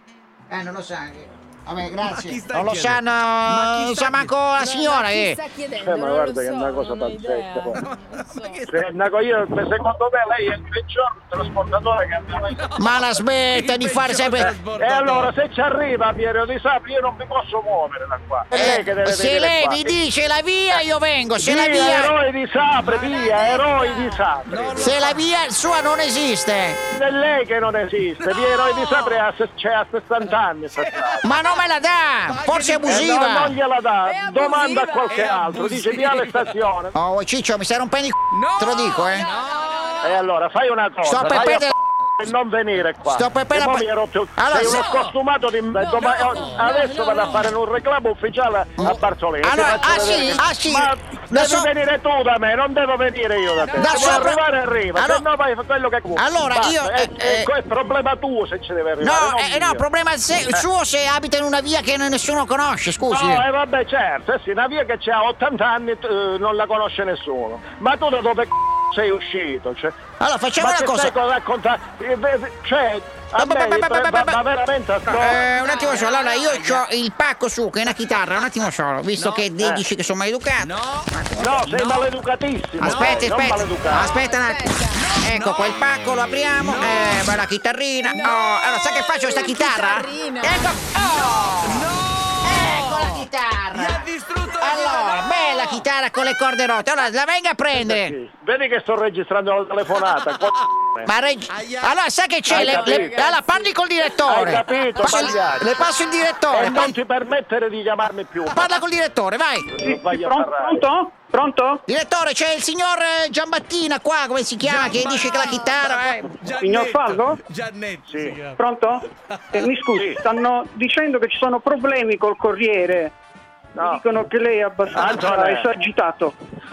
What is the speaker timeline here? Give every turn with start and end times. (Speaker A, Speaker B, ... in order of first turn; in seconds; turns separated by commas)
Speaker A: 0.5-5.4, Speaker B: 2.0-4.4, Speaker C: 4.5-8.7, Speaker D: 5.7-7.8, Speaker B: 7.7-8.8, Speaker D: 8.7-12.9, Speaker B: 12.5-12.8, Speaker A: 12.8-14.6, Speaker B: 13.5-15.3, Speaker D: 14.7-19.9, Speaker A: 18.5-22.1, Speaker D: 21.4-25.0, Speaker B: 22.8-23.3, Speaker C: 23.1-24.1, Speaker B: 24.4-25.2, Speaker A: 24.8-26.8, Speaker D: 26.9-31.3, Speaker B: 28.2-29.2, Speaker B: 30.8-31.2, Speaker A: 31.2-33.6, Speaker B: 32.2-33.1, Speaker D: 32.8-36.9, Speaker C: 34.0-35.2, Speaker B: 35.1-36.5, Speaker A: 36.9-39.3, Speaker B: 38.3-40.2, Speaker C: 39.0-40.2, Speaker D: 40.0-59.8, Speaker A: 41.0-41.7, Speaker A: 43.0-45.0, Speaker B: 44.6-45.1, Speaker C: 45.7-47.5, Speaker B: 46.3-47.4, Speaker A: 48.8-51.7, Speaker C: 49.7-50.1, Speaker B: 53.6-54.1, Speaker A: 53.8-54.4, Speaker A: 55.0-55.2, Speaker A: 56.1-57.5, Speaker A: 59.0-63.4, Speaker D: 63.1-69.9, Speaker A: 70.2-71.1, Speaker D: 70.5-75.5, Speaker A: 73.3-74.4, Speaker A: 75.1-81.5, Speaker C: 75.5-76.1, Speaker B: 75.8-76.8, Speaker B: 79.2-79.5, Speaker D: 79.6-79.8, Speaker B: 80.6-82.1, Speaker D: 81.3-84.1, Speaker A: 82.8-91.9, Speaker B: 82.8-83.3, Speaker C: 84.1-85.3, Speaker B: 84.9-85.8, Speaker B: 86.6-87.3, Speaker C: 88.0-88.4, Speaker C: 89.0-90.6, Speaker B: 91.6-95.9, Speaker A: 92.4-98.1, Speaker D: 97.7-101.1, Speaker A: 101.0-107.0, Speaker B: 101.5-102.0, Speaker D: 102.5-103.3, Speaker B: 102.5-103.7, Speaker D: 104.2-105.9, Speaker D: 106.5-108.8, Speaker A: 108.5-109.7, Speaker D: 109.7-110.9, Speaker E: 109.8-111.8, Speaker A: 111.9-116.3, Speaker B: 114.6-118.5, Speaker E: 116.6-117.4, Speaker D: 118.1-118.5, Speaker E: 118.5-123.1, Speaker D: 119.9-120.2, Speaker D: 123.8-124.0, Speaker E: 123.8-126.3, Speaker D: 124.9-125.7